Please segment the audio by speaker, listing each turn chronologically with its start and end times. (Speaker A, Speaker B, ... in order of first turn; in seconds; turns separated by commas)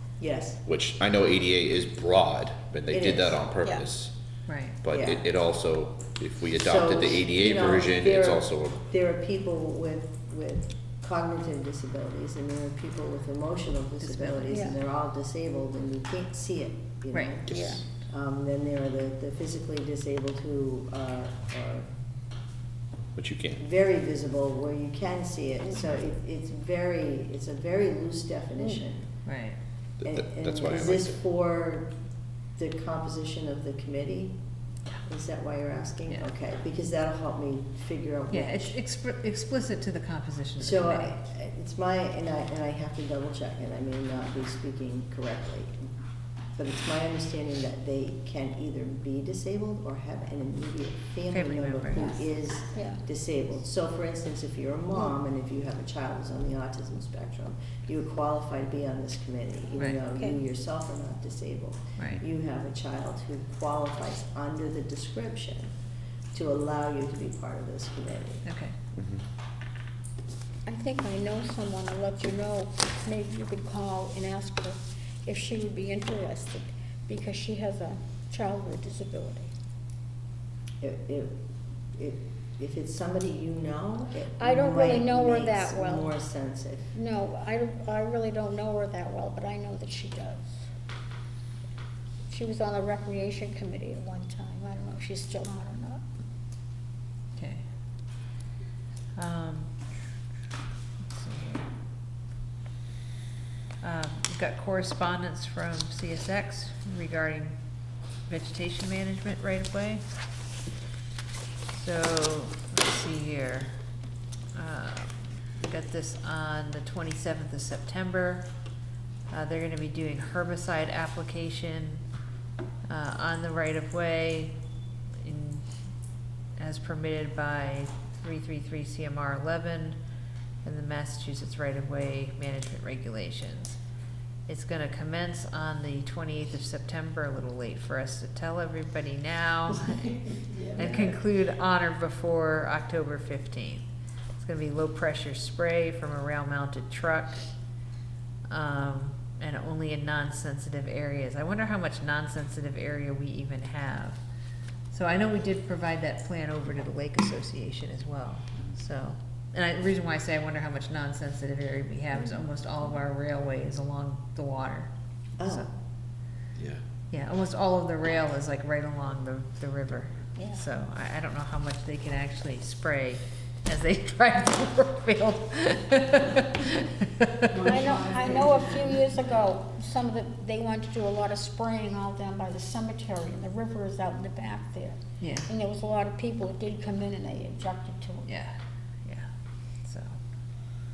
Speaker A: 0.2-0.6, Speaker B: 0.7-4.1, Speaker A: 2.9-3.4, Speaker C: 4.5-4.8, Speaker B: 4.8-8.8, Speaker A: 4.9-5.2, Speaker A: 6.6-21.9, Speaker C: 14.0-14.5, Speaker D: 14.5-14.7, Speaker C: 17.1-17.4, Speaker B: 17.5-17.8, Speaker D: 17.5-17.8, Speaker B: 23.1-23.6, Speaker A: 23.6-29.1, Speaker C: 29.2-29.6, Speaker B: 30.0-31.1, Speaker A: 30.0-31.9, Speaker A: 32.5-34.4, Speaker A: 35.0-38.8, Speaker C: 38.3-41.2, Speaker A: 40.6-45.8, Speaker A: 46.5-65.7, Speaker C: 51.3-52.1, Speaker D: 52.7-53.0, Speaker D: 60.1-60.4, Speaker C: 62.0-62.2, Speaker A: 66.3-68.4, Speaker C: 68.4-68.8, Speaker D: 70.7-79.5, Speaker A: 80.8-81.4, Speaker A: 81.9-86.9, Speaker D: 84.4-86.1, Speaker D: 86.9-90.6, Speaker D: 92.3-96.0, Speaker C: 97.3-97.6, Speaker C: 99.2-99.7, Speaker C: 101.1-101.7, Speaker C: 103.8-107.5, Speaker C: 108.3-110.0, Speaker C: 111.7-113.7, Speaker C: 114.5-118.5, Speaker C: 119.3-122.0, Speaker C: 122.9-124.6, Speaker C: 125.2-125.6, Speaker C: 126.6-130.0, Speaker C: 130.6-133.8, Speaker C: 134.5-140.1, Speaker A: 140.7-141.0, Speaker C: 140.8-147.4, Speaker C: 148.5-154.2, Speaker C: 154.9-164.9, Speaker A: 165.4-165.7, Speaker C: 165.4-165.7, Speaker B: 166.6-166.8, Speaker C: 167.1-177.8, Speaker D: 170.4-170.6, Speaker D: 177.6-188.3, Speaker C: 185.2-185.5, Speaker C: 188.2-189.3, Speaker C: 189.8-190.1